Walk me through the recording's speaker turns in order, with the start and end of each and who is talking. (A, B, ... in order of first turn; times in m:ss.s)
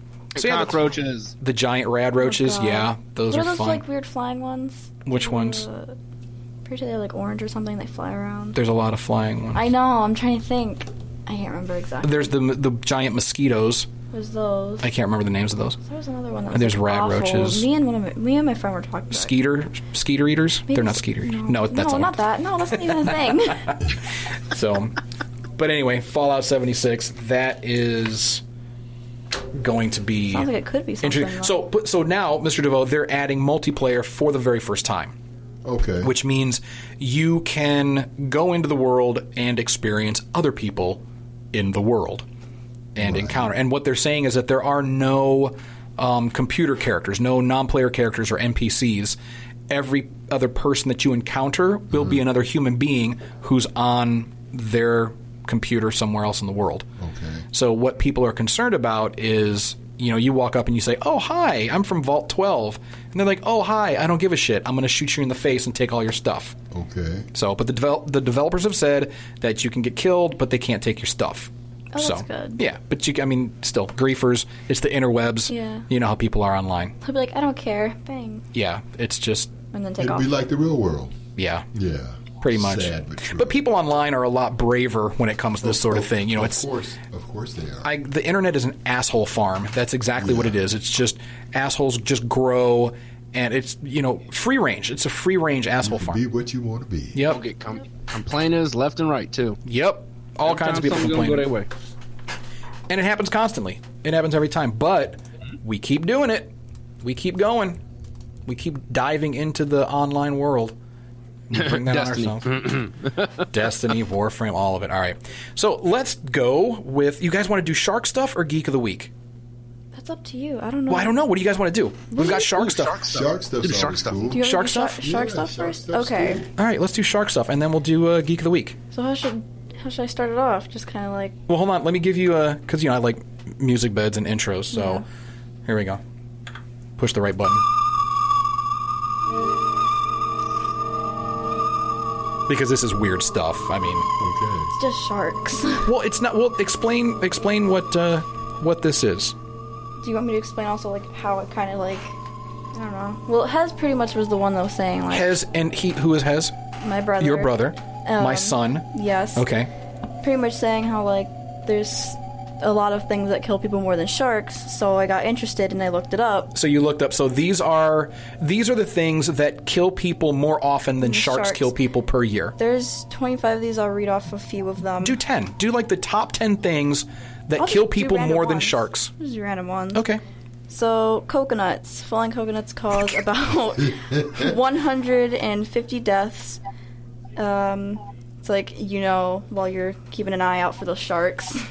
0:00.3-0:01.3 A
0:00.4-0:03.8 B
0:02.2-0:06.0 C
0:05.0-0:05.6 B
0:06.6-0:08.6 C
0:08.5-0:09.7 B
0:09.5-0:12.3 C
0:12.0-0:13.9 B
0:14.1-0:14.9 C
0:14.8-0:15.8 B
0:15.8-0:19.3 C
0:16.5-0:17.6 B
0:19.1-0:22.2 B
0:20.7-0:23.8 C
0:24.5-0:25.0 B
0:25.6-0:28.4 B
0:29.5-0:30.5 B
0:30.3-0:31.6 C
0:31.0-0:35.1 B
0:35.6-0:36.1 D
0:36.0-0:41.0 B
0:41.5-0:42.2 B
0:42.9-0:49.2 B
0:43.0-0:43.5 D
0:49.7-0:56.9 B
0:51.9-0:52.2 D
0:57.0-0:57.5 D
0:57.5-1:06.6 B
1:06.7-1:07.3 D
1:07.3-1:17.0 B
1:11.9-1:12.6 C
1:15.5-1:15.9 C
1:17.0-1:18.4 C
1:18.5-1:19.5 B
1:19.7-1:20.3 C
1:20.0-1:21.2 D
1:21.4-1:21.7 B
1:21.7-1:23.6 D
1:22.4-1:26.7 B
1:25.6-1:27.9 D
1:27.8-1:36.2 B
1:30.2-1:30.6 D
1:35.8-1:37.2 D
1:37.1-1:37.4 B
1:37.3-1:39.6 A
1:39.6-1:41.5 B
1:40.4-1:41.7 A
1:42.9-1:47.8 B
1:48.4-1:50.7 B
1:51.5-1:52.7 B
1:51.5-1:53.4 A
1:53.5-1:59.1 B
1:59.9-2:01.1 C
2:00.9-2:03.1 B
2:02.1-2:02.4 C
2:02.2-2:04.3 A
2:03.1-2:04.4 D
2:04.3-2:06.4 C
2:04.4-2:05.1 B
2:05.0-2:06.5 D
2:06.6-2:08.8 B
2:08.9-2:11.4 C
2:11.5-2:15.0 B
2:14.7-2:15.0 C
2:15.6-2:16.0 B
2:17.0-2:17.6 B
2:22.5-2:24.1 B
2:24.2-2:24.7 D
2:24.8-2:25.9 C
2:25.8-2:29.3 B
2:30.0-2:32.2 C
2:32.7-2:35.4 C
2:35.1-2:36.5 B
2:36.8-2:39.5 C
2:37.2-2:39.7 B
2:40.2-2:46.5 C
2:46.5-2:52.5 B
2:51.0-2:51.7 C
2:52.6-2:55.2 C
2:55.0-2:59.1 B
2:57.6-3:00.0 C
2:59.9-3:00.2 B
3:00.7-3:06.6 C
3:07.4-3:11.6 C